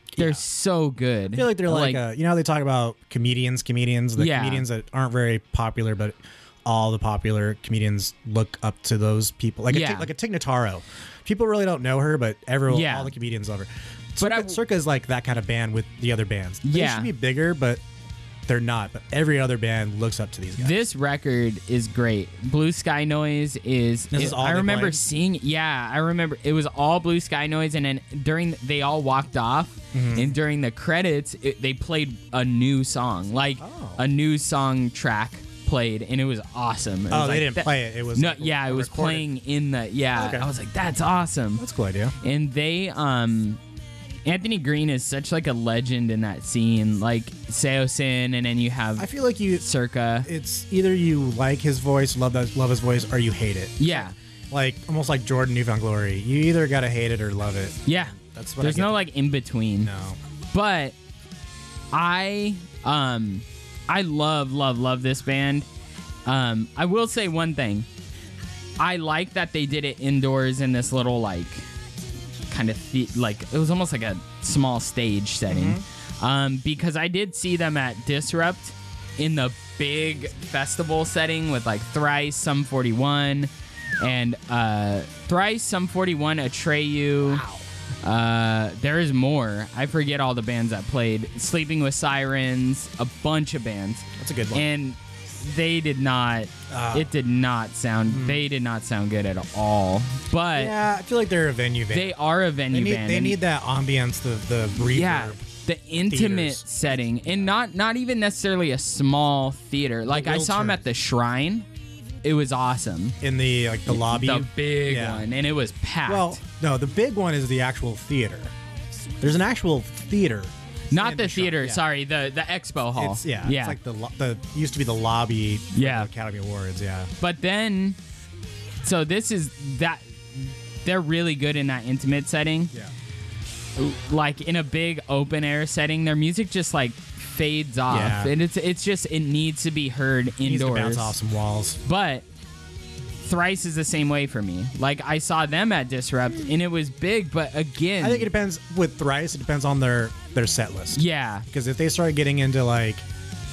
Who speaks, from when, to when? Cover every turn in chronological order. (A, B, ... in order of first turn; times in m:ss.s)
0:00.2-0:00.4 A
0:00.2-0:02.0 B
0:01.3-0:17.8 A
0:04.2-0:04.7 B
0:09.7-0:10.1 B
0:12.7-0:13.1 B
0:14.2-0:14.6 B
0:16.6-0:17.1 B
0:18.5-0:20.8 A
0:20.6-0:41.6 B
0:24.1-0:25.0 A
0:29.9-0:30.4 A
0:33.6-0:34.0 A
0:37.1-0:39.3 A
0:40.2-0:40.5 A
0:41.6-0:42.2 A
0:42.2-0:43.6 B
0:44.2-0:49.1 B
0:49.0-0:49.7 A
0:49.6-0:50.3 B
0:50.2-0:59.0 A
0:53.8-0:54.1 B
0:57.9-0:59.9 B
0:59.8-1:00.2 A
1:00.5-1:01.0 B
1:01.9-1:05.7 B
1:06.3-1:07.9 B
1:08.8-1:11.7 B
1:12.5-1:23.5 B
1:15.5-1:15.8 A
1:24.0-1:27.4 B
1:27.3-1:27.6 A
1:28.0-1:40.8 B
1:34.2-1:34.7 A
1:36.7-1:37.1 A
1:38.1-1:38.4 A
1:40.6-1:42.2 A
1:41.9-1:43.4 B
1:42.7-1:45.4 A
1:44.8-1:51.7 B
1:46.0-1:47.5 A
1:50.1-1:50.8 A
1:52.2-1:53.2 B
1:53.2-1:55.3 A
1:53.9-1:56.4 B
1:56.1-1:58.5 A
1:59.2-2:01.8 A
2:00.9-2:03.8 B
2:03.0-2:07.1 A
2:05.7-2:06.1 B
2:07.2-2:08.0 B
2:08.8-2:12.7 B
2:13.8-2:21.2 B
2:17.9-2:18.3 A
2:20.4-2:21.8 A
2:21.8-2:22.2 B
2:23.2-2:28.3 B
2:28.0-2:33.1 A
2:30.9-2:31.5 B